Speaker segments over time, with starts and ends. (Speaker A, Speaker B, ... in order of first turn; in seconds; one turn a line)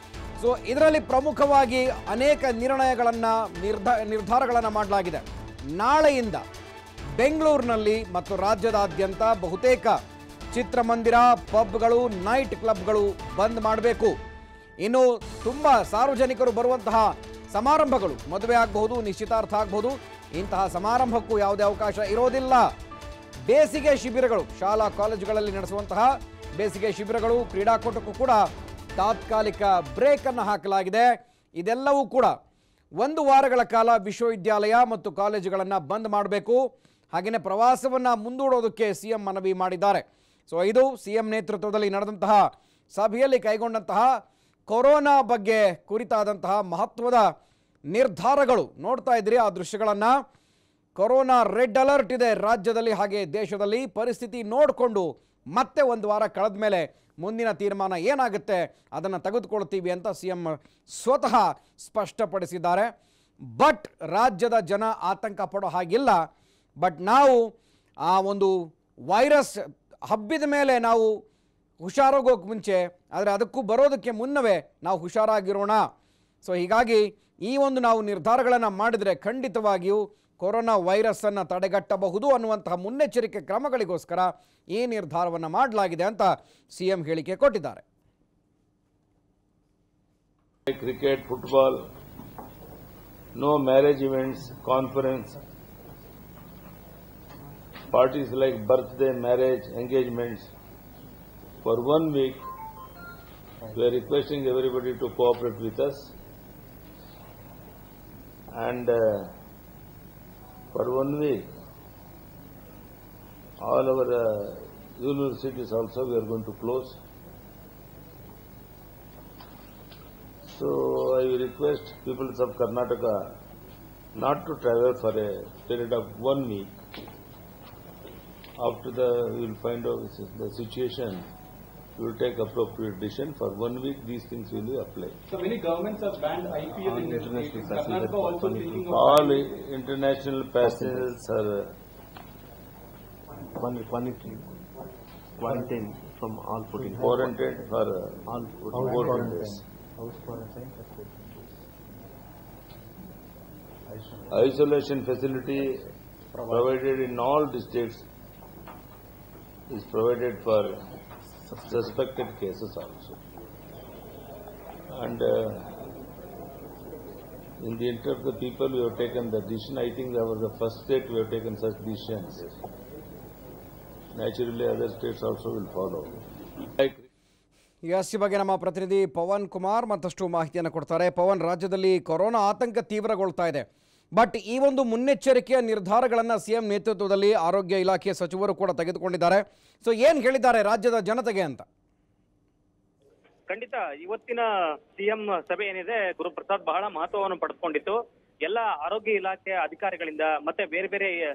Speaker A: 0.4-5.2
Speaker A: 5.8-6.4
Speaker A: 7.1-10.0
Speaker A: 10.5-14.2
Speaker A: 14.8-22.7
Speaker A: 23.5-28.4
Speaker A: 29.0-32.3
Speaker A: 33.0-36.6
Speaker A: 37.1-42.4
Speaker A: 43.0-44.1
Speaker A: 44.7-47.2
Speaker A: 47.9-50.1
Speaker A: 51.0-62.9
Speaker A: 63.5-66.2
Speaker A: 66.8-67.4
Speaker A: 68.1-68.5
Speaker A: 69.1-71.1
Speaker A: 71.8-75.8
Speaker A: 76.4-87.8
Speaker B: 90.7-91.8
Speaker B: 93.4-95.4
Speaker B: 97.9-100.5
Speaker B: 101.6-102.4
Speaker B: 103.7-106.1
Speaker B: 108.5-109.3
Speaker B: 110.7-111.4
Speaker B: 113.6-117.0
Speaker B: 120.5-123.3
Speaker B: 124.2-126.7
Speaker B: 128.6-131.3
Speaker B: 132.0-135.2
Speaker C: 135.3-139.3
Speaker D: 136.6-139.1
Speaker B: 138.9-141.8
Speaker D: 140.6-141.2
Speaker D: 143.6-144.5
Speaker D: 145.4-147.3
Speaker B: 146.9-149.6
Speaker D: 148.3-151.1
Speaker B: 154.3-155.9
Speaker B: 156.4-158.1
Speaker B: 159.7-160.8
Speaker B: 161.5-163.2
Speaker B: 164.9-165.8
Speaker B: 167.6-172.6
Speaker B: 174.2-177.1
Speaker A: 177.9-183.7
Speaker A: 184.2-191.7
Speaker E: 193.5-201.2